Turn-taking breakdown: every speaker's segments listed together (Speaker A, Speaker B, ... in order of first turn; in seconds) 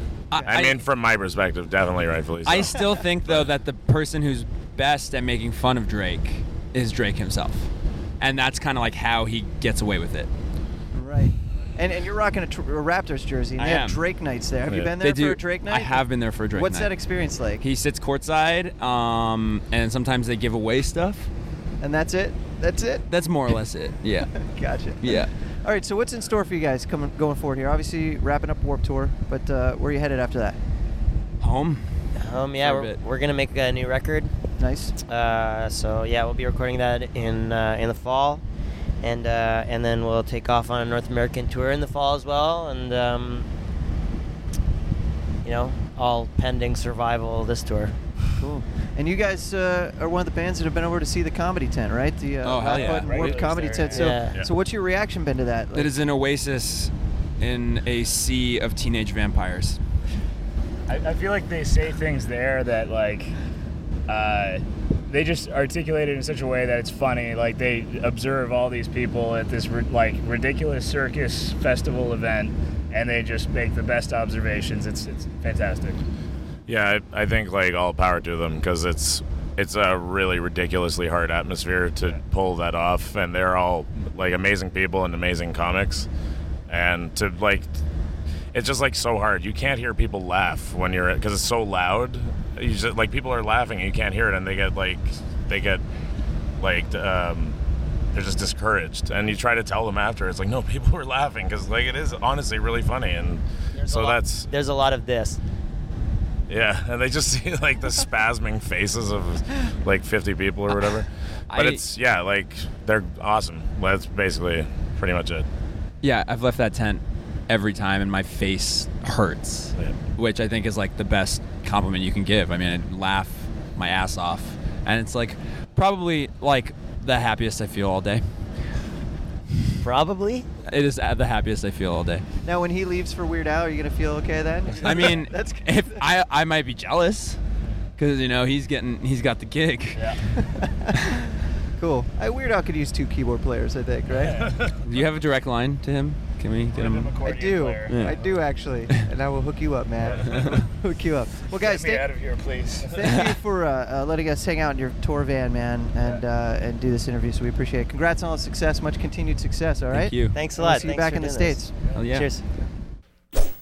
Speaker A: 0.3-0.8, 2.4-7.7, 8.2-10.3, 13.6-14.0, 15.0-17.0, 17.6-21.3, 23.1-24.4, 25.0-25.3, 31.4-31.9, 32.6-33.0, 52.4-53.4, 55.7-59.8, 111.5-111.8, 116.0-128.2, 130.7-132.2, 134.8-137.4, 138.0-140.1, 144.8-147.2, 147.9-148.2, 159.9-160.4, 161.9-162.3
Speaker B: 0.4-3.5, 52.7-53.0, 76.7-86.1, 86.7-87.8, 88.5-95.8, 96.6-97.6, 98.1-104.5, 106.5-115.5
Speaker C: 10.9-16.0, 16.5-17.6, 21.8-23.1, 24.3-30.6, 34.6-34.9, 48.4-55.9, 132.4-136.0, 140.6-144.5, 147.2-152.1, 152.9-161.7
Speaker D: 32.1-34.3, 35.0-38.4, 39.0-43.5, 45.4-47.9, 53.9-54.4, 103.7-105.4, 129.8-130.4, 160.3-162.5
Speaker E: 52.9-54.2, 60.9-63.3, 64.1-76.0, 139.9-140.2, 144.1-144.7, 146.7-148.5, 150.0-150.6, 151.5-153.1